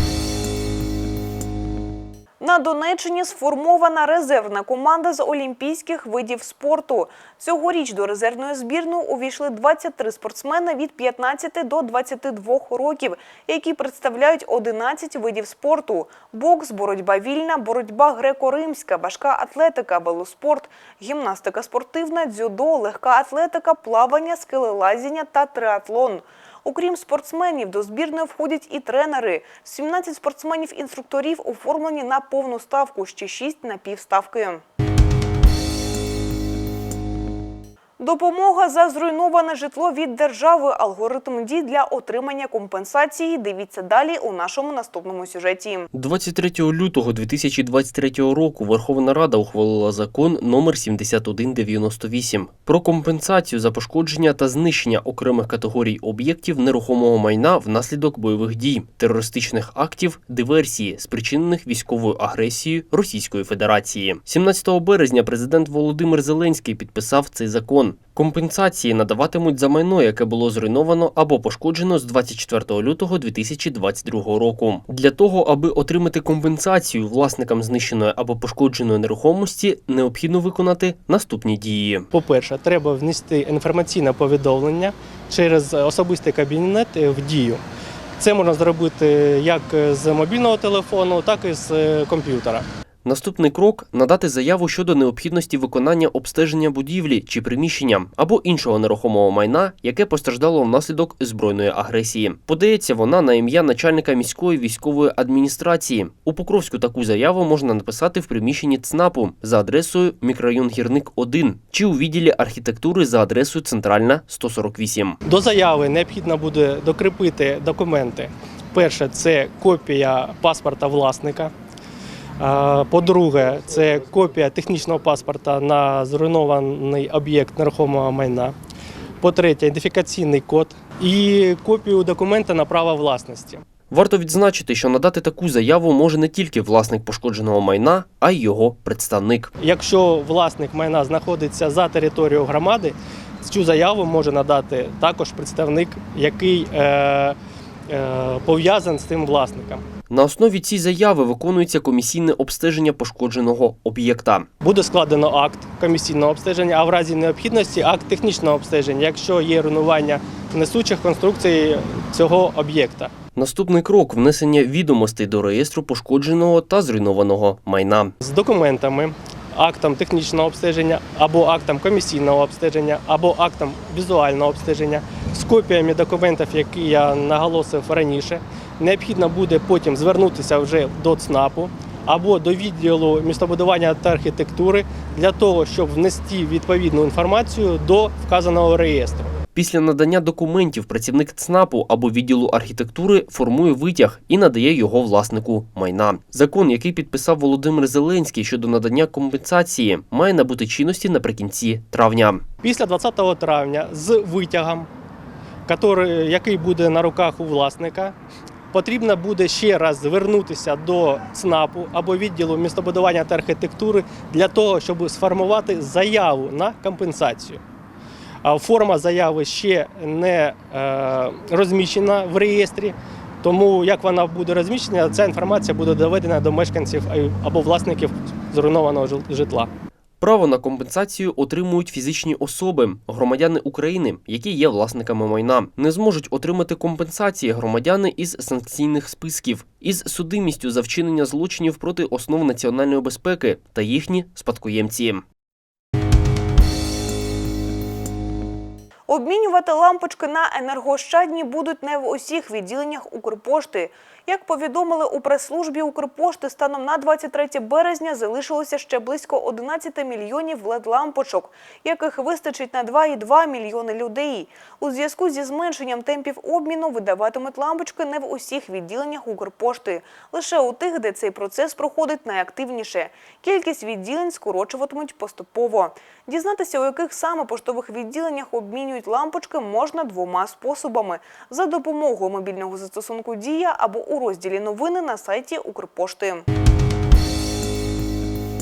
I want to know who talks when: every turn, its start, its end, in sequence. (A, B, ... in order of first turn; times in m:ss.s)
0:02.4-0:34.6 A
0:38.0-0:45.9 A
0:45.9-1:22.1 B
1:22.1-1:27.6 C
1:28.2-1:32.6 C
1:33.0-1:55.2 B
1:55.2-2:01.5 C
2:02.4-2:08.5 C
2:09.2-2:13.6 C
2:13.9-2:19.5 B
2:19.6-2:27.4 C
2:27.9-2:29.8 C
2:30.1-2:34.5 B
2:34.6-2:43.1 C
2:43.3-2:48.1 B
2:48.2-3:09.3 C
3:09.5-3:22.4 B
3:22.6-3:24.9 C
3:25.7-3:28.1 C
3:28.7-3:37.6 C
3:38.4-3:49.7 C
3:50.2-4:05.2 B
4:09.1-4:46.4 A